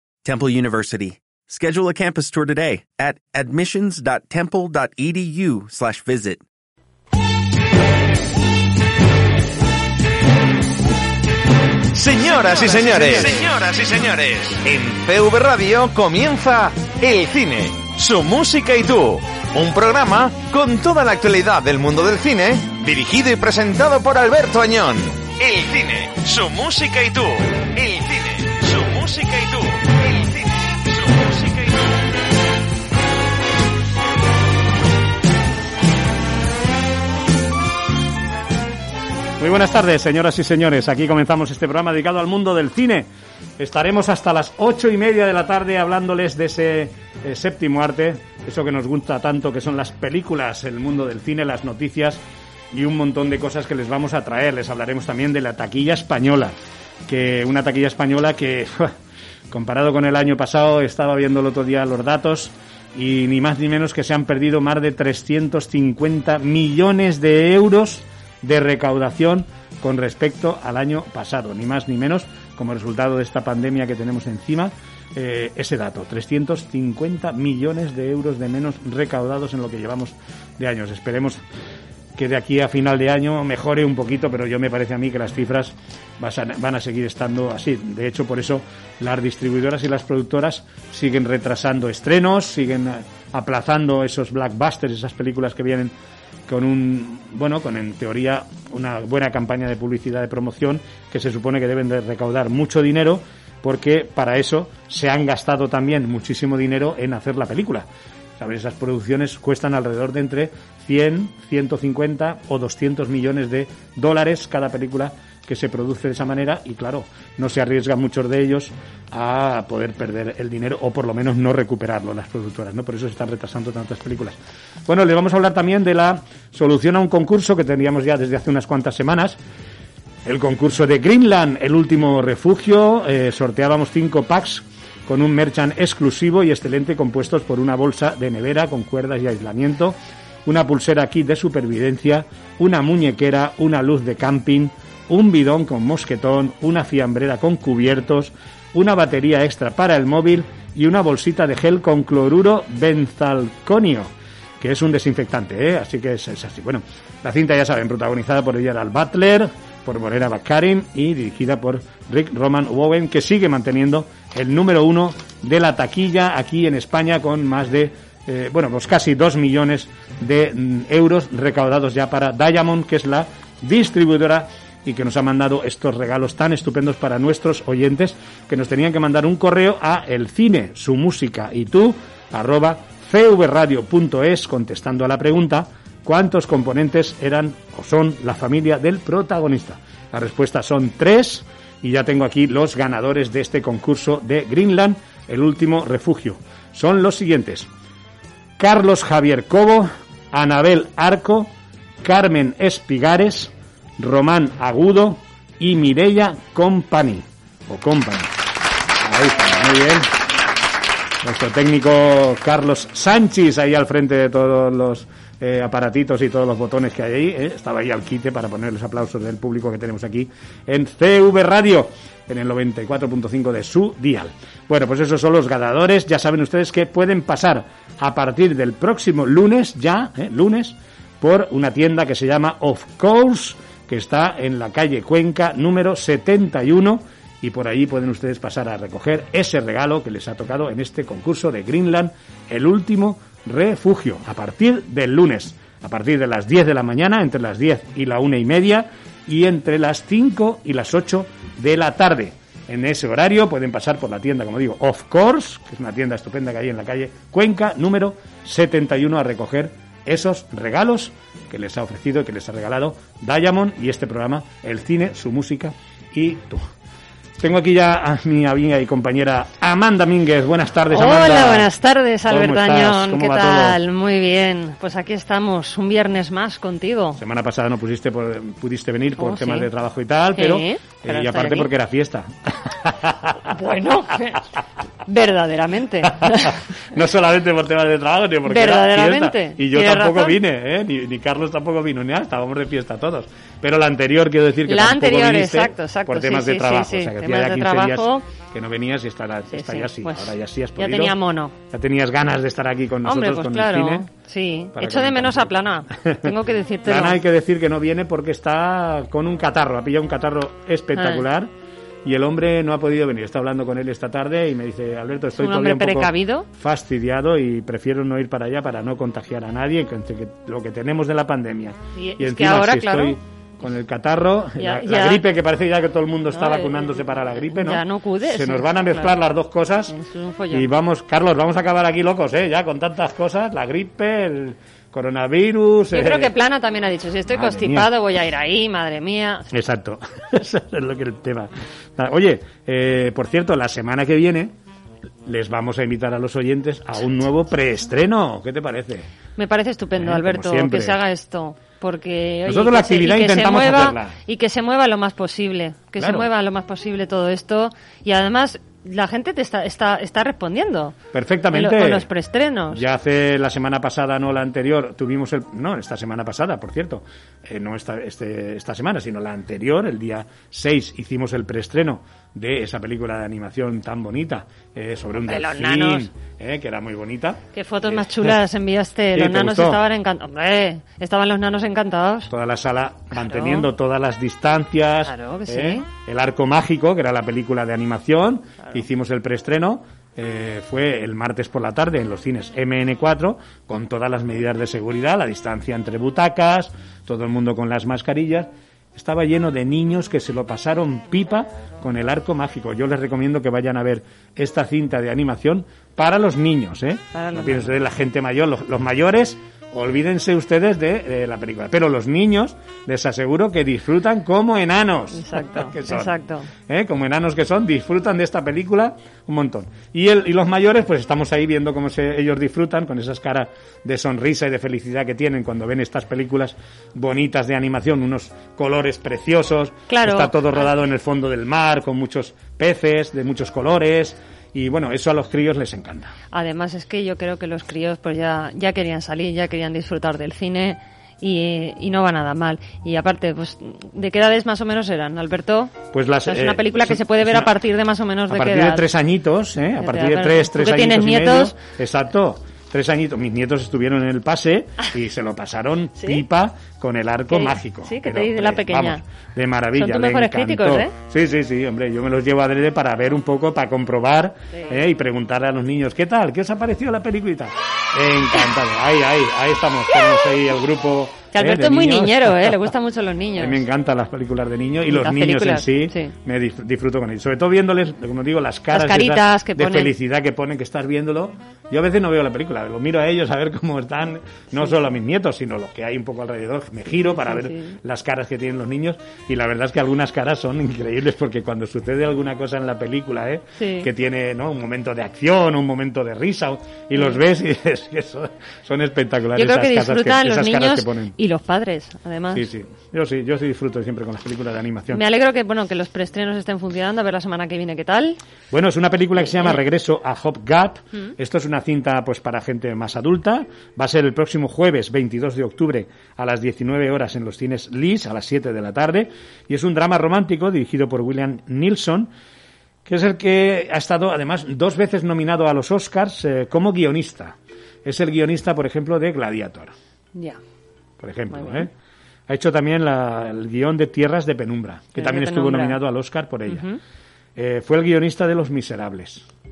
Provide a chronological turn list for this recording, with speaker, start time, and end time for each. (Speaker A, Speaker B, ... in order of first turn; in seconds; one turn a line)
Speaker A: 0.2-6.4
Speaker B: 11.9-32.0
Speaker C: 39.4-56.5
Speaker C: 57.1-59.0
Speaker C: 59.5-81.4
Speaker C: 82.2-95.9
Speaker C: 96.5-129.4
Speaker C: 130.2-197.7
Speaker C: 198.6-208.3
Speaker C: 209.0-210.1
Speaker C: 211.2-266.7
Speaker C: 267.4-271.7
Speaker D: 270.9-277.2
Speaker C: 272.3-273.8
Speaker C: 277.2-283.5
Speaker D: 279.2-279.7
Speaker D: 280.4-281.7
Speaker D: 283.5-284.4
Speaker D: 285.1-286.6
Speaker C: 286.1-301.1
Speaker D: 288.5-290.4
Speaker D: 294.7-298.3
Speaker D: 299.5-301.6
Speaker C: 301.7-304.1
Speaker D: 303.1-307.2
Speaker C: 304.7-306.4
Speaker C: 306.9-311.5
Speaker D: 311.0-311.2
Speaker C: 312.0-329.9
Speaker D: 315.4-316.5
Speaker D: 321.9-323.2
Speaker D: 324.6-325.2
Speaker D: 326.3-329.2
Speaker D: 329.9-330.7
Speaker C: 330.5-336.3
Speaker D: 335.9-339.5
Speaker C: 337.3-337.9
Speaker C: 339.5-344.5
Speaker C: 345.2-349.1
Speaker D: 349.4-361.0
Speaker C: 350.0-351.0
Speaker C: 352.5-354.2
Speaker C: 356.0-356.3
Speaker C: 361.1-362.1
Speaker D: 361.5-362.8
Speaker C: 362.7-378.4
Speaker D: 375.2-376.1
Speaker D: 377.5-382.3
Speaker C: 379.1-379.8
Speaker C: 382.3-416.1
Speaker D: 383.2-383.7
Speaker D: 385.0-385.9
Speaker D: 407.1-407.8
Speaker D: 415.1-416.5
Speaker C: 416.7-436.1
Speaker D: 429.9-430.7
Speaker D: 436.3-448.9
Speaker C: 445.9-447.5
Speaker C: 448.3-472.7
Speaker D: 449.8-451.5
Speaker D: 456.0-456.2
Speaker D: 457.3-459.0
Speaker D: 459.8-460.9
Speaker D: 464.5-464.8
Speaker D: 471.3-473.6
Speaker C: 473.4-501.1
Speaker D: 474.9-476.1
Speaker D: 478.7-479.9
Speaker D: 487.2-487.8
Speaker D: 493.6-493.9
Speaker D: 499.4-502.5
Speaker C: 502.3-505.0
Speaker D: 504.9-508.2
Speaker C: 508.5-522.1
Speaker D: 509.2-509.6
Speaker C: 522.9-529.7
Speaker D: 530.1-530.4
Speaker C: 531.0-531.7
Speaker D: 531.3-531.7
Speaker C: 532.3-536.7
Speaker D: 535.0-535.8
Speaker D: 536.5-536.8
Speaker C: 537.4-539.3